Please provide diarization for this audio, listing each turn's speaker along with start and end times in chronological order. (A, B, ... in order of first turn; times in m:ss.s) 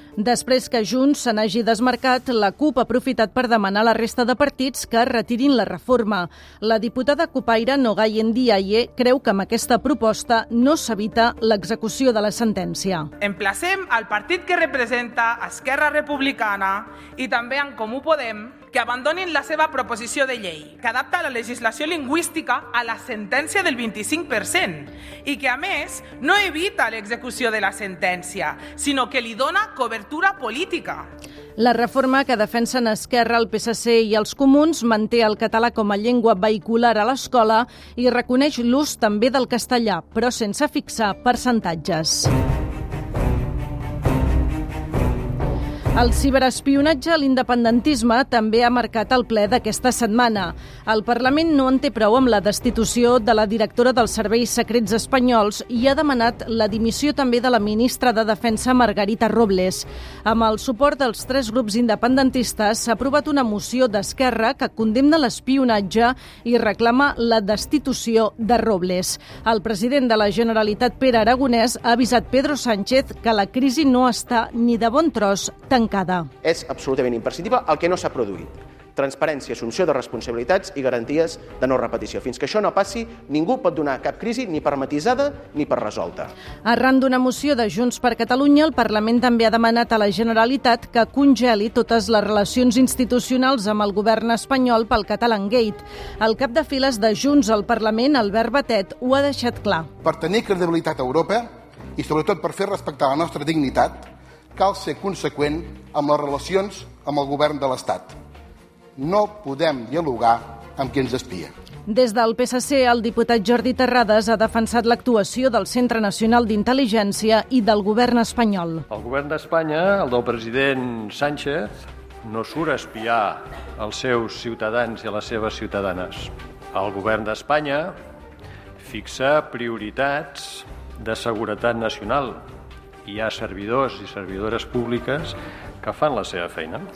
0:00.2-0:13.1 A
0:13.2-0:31.1 B
0:31.6-0:42.3 A
0:46.0-1:16.3 A
1:16.4-1:26.3 C
1:26.6-1:39.9 A
1:40.0-1:48.1 D
1:49.0-1:51.5 D
1:51.9-1:58.8 A
1:58.9-2:01.7 E
2:02.2-2:07.9 E
2:08.8-2:12.4 E
2:13.1-2:16.8 E